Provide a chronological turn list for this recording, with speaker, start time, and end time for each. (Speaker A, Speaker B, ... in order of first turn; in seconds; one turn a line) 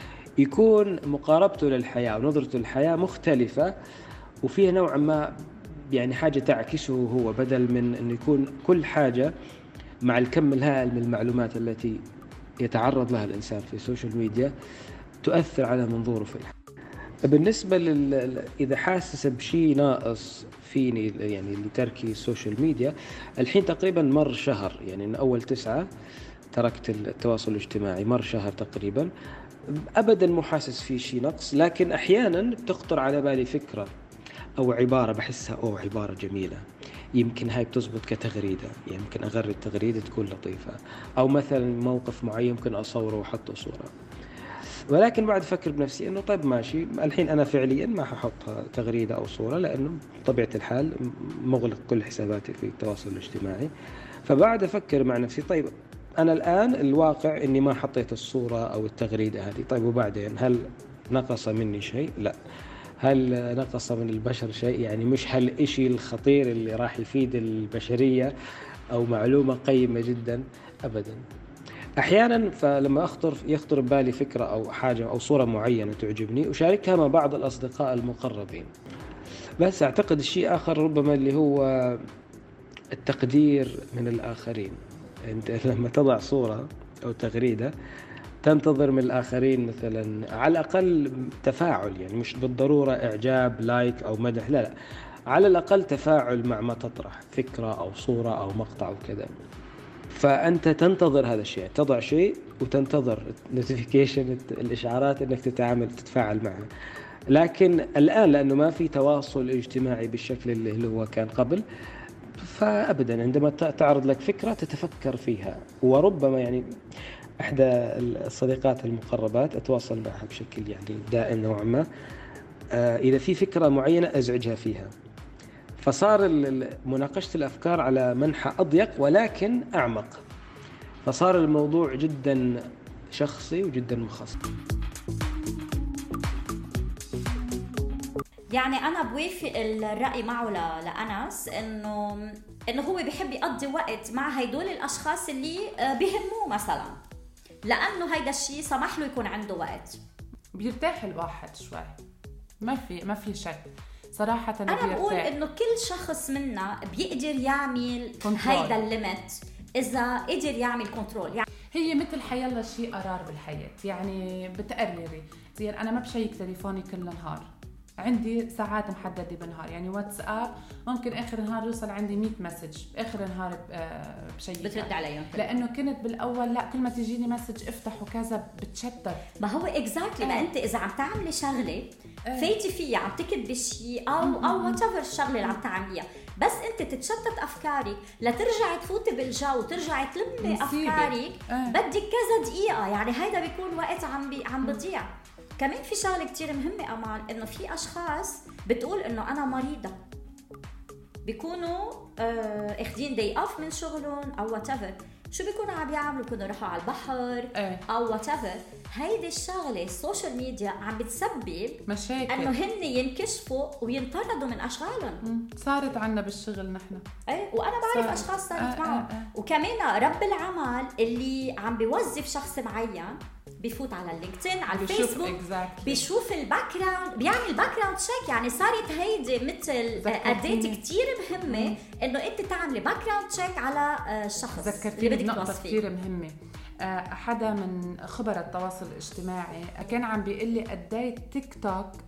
Speaker A: 0.4-3.7
Speaker A: 4.5-5.3
Speaker A: 5.9-9.3
Speaker A: 10.1-12.0
Speaker A: 12.6-14.5
Speaker A: 15.2-16.5
Speaker A: 17.3-25.9
Speaker A: 26.5-29.1
Speaker A: 30.0-33.9
Speaker A: 34.6-36.6
Speaker A: 37.2-43.9
Speaker A: 44.9-53.7
Speaker A: 54.3-62.4
Speaker A: 63.0-68.3
Speaker A: 68.9-71.2
Speaker A: 72.0-78.7
Speaker A: 79.6-82.0
Speaker A: 82.9-87.7
Speaker A: 88.4-94.7
Speaker A: 95.3-99.3
Speaker A: 100.2-106.7
Speaker A: 107.3-111.6
Speaker A: 112.4-116.6
Speaker A: 117.4-121.9
Speaker A: 122.7-124.9
Speaker A: 125.8-130.2
Speaker A: 131.0-132.6
Speaker A: 133.1-134.4
Speaker B: 138.5-146.9
Speaker B: 147.7-150.0
Speaker C: 150.6-151.9
Speaker C: 152.6-155.3
Speaker B: 154.7-161.4
Speaker C: 158.2-158.7
Speaker C: 161.8-167.4
Speaker C: 168.0-174.7
Speaker B: 174.6-175.6
Speaker C: 175.4-179.2
Speaker B: 179.4-199.9
Speaker C: 180.2-180.5
Speaker C: 184.2-184.8
Speaker C: 190.4-191.8
Speaker B: 201.2-215.2
Speaker C: 211.9-212.5
Speaker C: 215.3-217.0
Speaker B: 217.3-235.8
Speaker C: 217.9-219.3
Speaker C: 224.7-226.0
Speaker C: 230.0-230.8
Speaker C: 234.6-236.3
Speaker C: 236.9-241.9